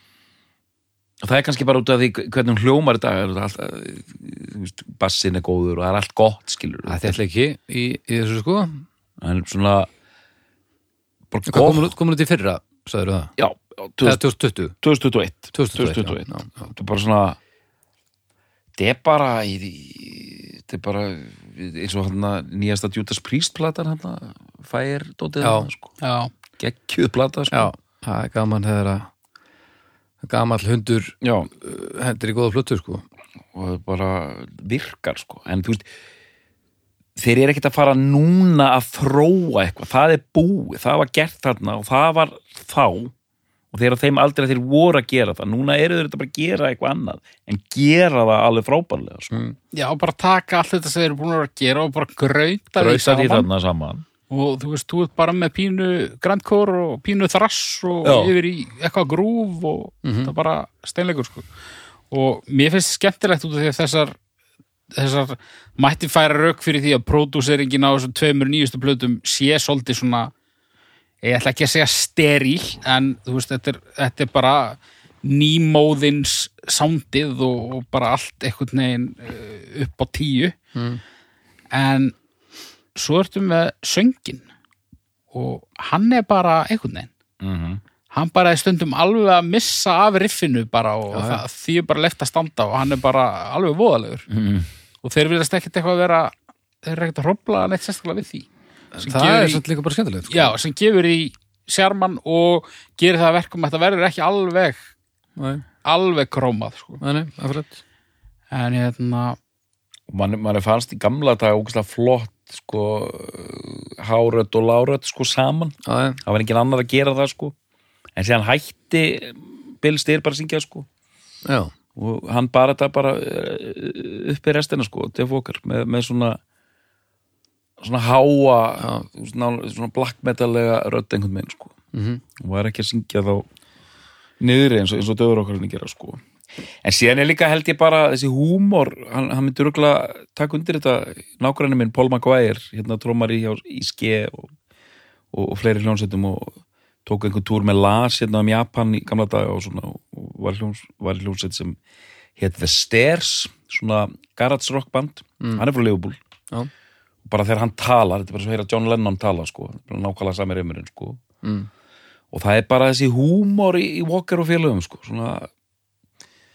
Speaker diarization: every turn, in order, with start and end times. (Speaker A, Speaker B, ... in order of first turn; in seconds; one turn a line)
Speaker A: 1.2-7.1
Speaker B: 6.9-8.8
Speaker A: 9.2-9.9
Speaker A: 11.3-11.9
Speaker B: 11.4-13.3
Speaker A: 13.4-14.2
Speaker B: 14.0-14.8
Speaker A: 14.8-17.4
Speaker B: 15.5-16.7
Speaker A: 18.8-25.9
Speaker B: 25.4-25.7
Speaker C: 26.0-26.3
Speaker A: 26.6-27.7
Speaker B: 27.5-29.1
Speaker B: 30.2-33.0
Speaker A: 31.2-31.5
Speaker A: 33.5-35.9
Speaker A: 37.1-43.1
Speaker A: 43.7-49.4
Speaker C: 49.7-53.5
Speaker A: 52.8-54.0
Speaker C: 54.3-61.5
Speaker A: 58.0-58.3
Speaker B: 60.0-60.3
Speaker C: 62.1-64.1
Speaker C: 64.9-70.3
Speaker C: 71.2-80.5
Speaker B: 80.7-81.0
Speaker C: 81.7-82.1
Speaker C: 82.9-84.5
Speaker C: 85.3-87.1
Speaker A: 87.4-87.8
Speaker C: 88.1-94.3
Speaker B: 91.1-91.4
Speaker A: 94.3-94.7
Speaker C: 95.0-98.5
Speaker B: 98.9-100.5
Speaker C: 99.0-99.6
Speaker C: 100.3-104.8
Speaker B: 105.4-105.6
Speaker C: 105.8-107.0
Speaker B: 107.0-107.8
Speaker C: 108.5-109.4
Speaker A: 110.1-117.5
Speaker B: 115.8-116.2
Speaker A: 118.2-120.9
Speaker B: 121.4-121.7
Speaker A: 122.0-126.4
Speaker A: 127.8-131.7
Speaker B: 128.8-129.0
Speaker B: 131.9-132.2
Speaker A: 132.4-133.4
Speaker A: 134.4-136.2
Speaker A: 136.8-144.5
Speaker A: 145.3-151.8
Speaker A: 152.4-156.2
Speaker A: 157.2-161.2
Speaker B: 161.4-161.7
Speaker A: 162.3-165.5